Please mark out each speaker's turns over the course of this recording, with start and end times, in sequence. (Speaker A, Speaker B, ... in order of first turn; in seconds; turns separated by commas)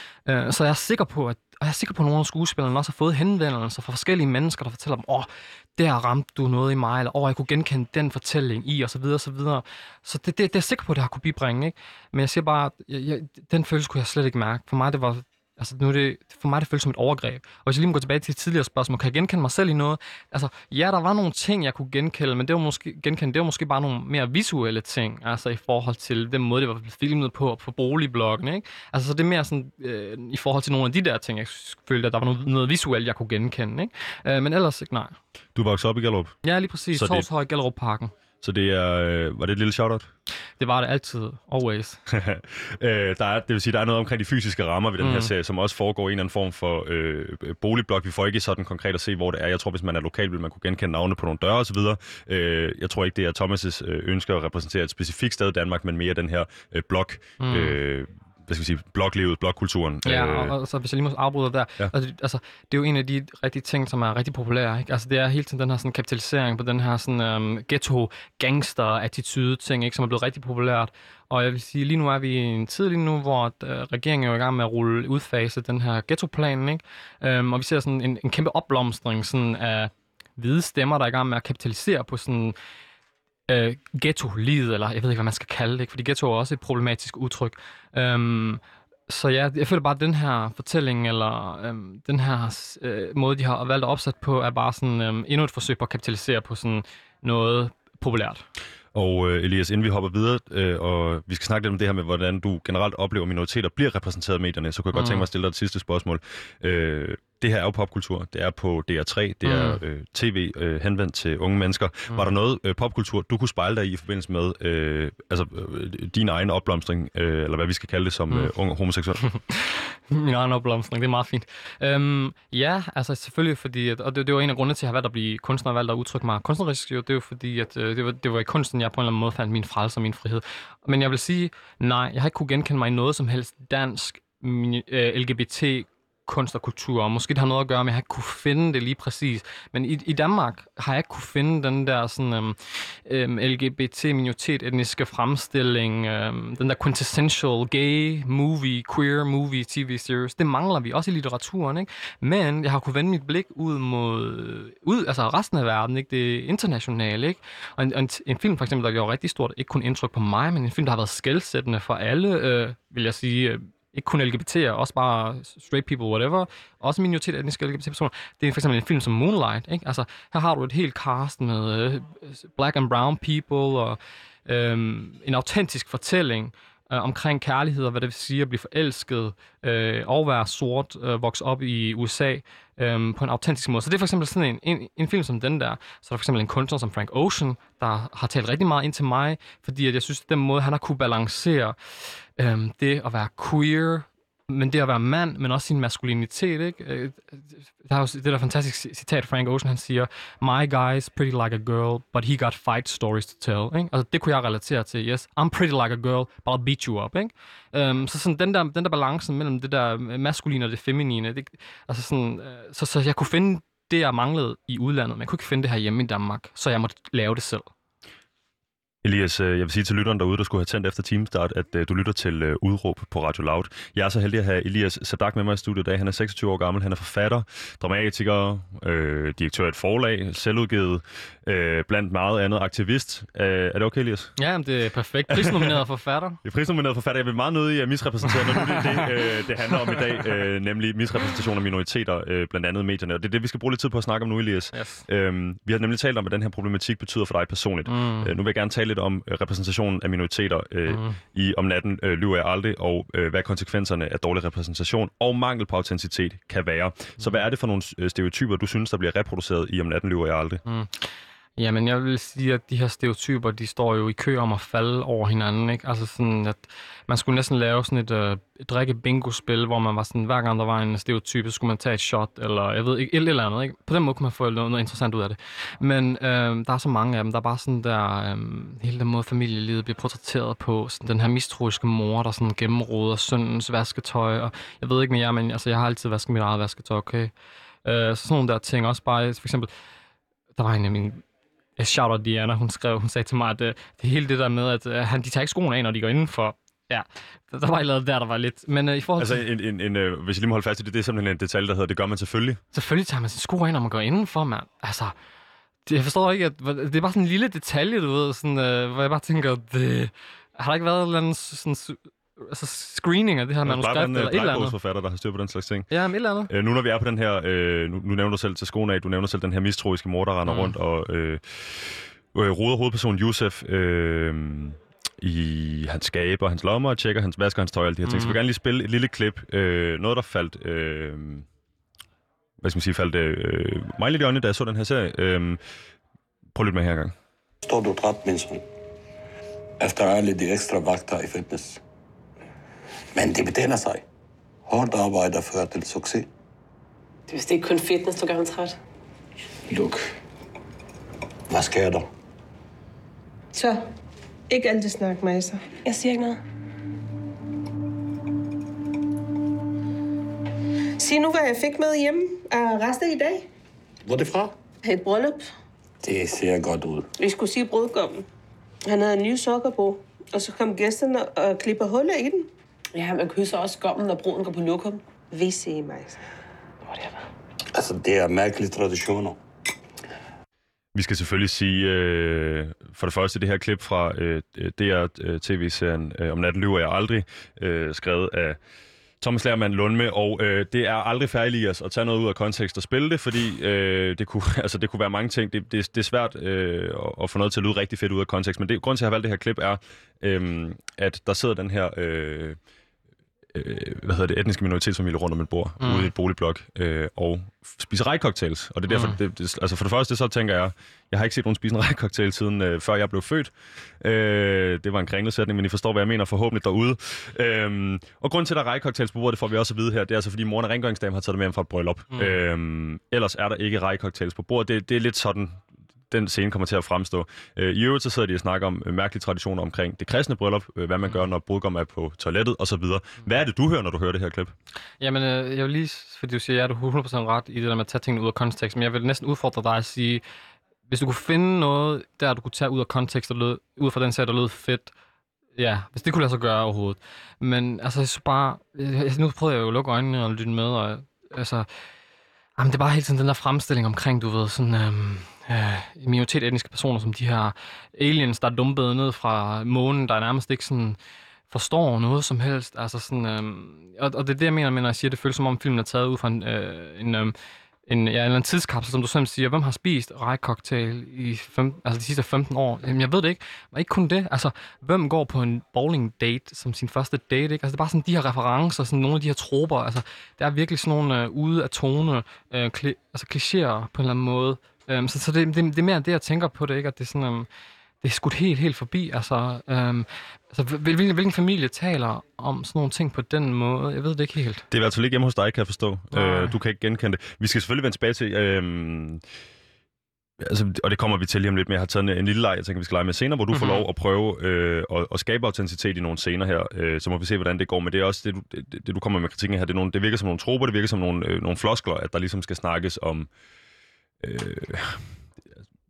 Speaker A: 0.2-35.1, Speaker B: 35.5-36.4, Speaker A: 36.4-38.1, Speaker B: 36.9-37.3, Speaker B: 38.4-40.1, Speaker A: 40.6-42.0, Speaker B: 42.1-60.5, Speaker A: 45.0-45.3, Speaker A: 57.4-57.8, Speaker A: 60.0-82.5, Speaker A: 83.5-98.4, Speaker B: 98.9-119.3, Speaker A: 104.9-105.2, Speaker A: 109.4-109.8, Speaker A: 119.2-217.7, Speaker B: 219.0-234.3, Speaker A: 234.3-236.4, Speaker B: 235.3-235.7, Speaker B: 236.4-260.6, Speaker A: 244.7-245.0, Speaker A: 247.9-248.3, Speaker A: 250.9-251.2, Speaker A: 260.6-287.3, Speaker A: 287.8-289.7, Speaker A: 290.6-291.2, Speaker A: 291.8-299.4, Speaker B: 299.2-302.6, Speaker A: 302.7-305.1, Speaker A: 305.9-314.8, Speaker B: 313.6-315.9, Speaker A: 315.9-316.5, Speaker B: 316.5-331.4, Speaker A: 320.4-320.7, Speaker A: 328.0-328.4, Speaker B: 332.6-335.6, Speaker B: 336.5-337.1, Speaker C: 337.6-338.6, Speaker C: 339.8-341.8, Speaker C: 343.1-344.0, Speaker C: 344.7-346.2, Speaker D: 347.3-348.8, Speaker C: 349.7-350.0, Speaker C: 351.5-352.0, Speaker E: 353.5-353.8, Speaker E: 354.5-355.8, Speaker D: 355.8-356.4, Speaker E: 361.0-363.4, Speaker C: 364.0-364.5, Speaker E: 364.8-365.5, Speaker C: 366.0-367.1, Speaker E: 367.2-368.2, Speaker E: 368.9-372.5, Speaker D: 372.9-375.0, Speaker E: 375.3-376.2, Speaker D: 376.9-377.2, Speaker C: 377.7-379.4, Speaker B: 380.9-388.6, Speaker B: 389.2-402.6, Speaker B: 403.5-434.5, Speaker A: 405.8-406.1, Speaker A: 408.9-409.2, Speaker A: 435.0-440.2, Speaker A: 440.9-444.9, Speaker A: 445.6-451.7, Speaker A: 452.6-461.0, Speaker A: 461.5-467.3, Speaker A: 467.9-487.5, Speaker A: 488.0-494.6, Speaker B: 494.7-499.2, Speaker A: 496.1-496.5, Speaker B: 500.4-513.3, Speaker A: 503.5-503.8, Speaker B: 514.2-515.0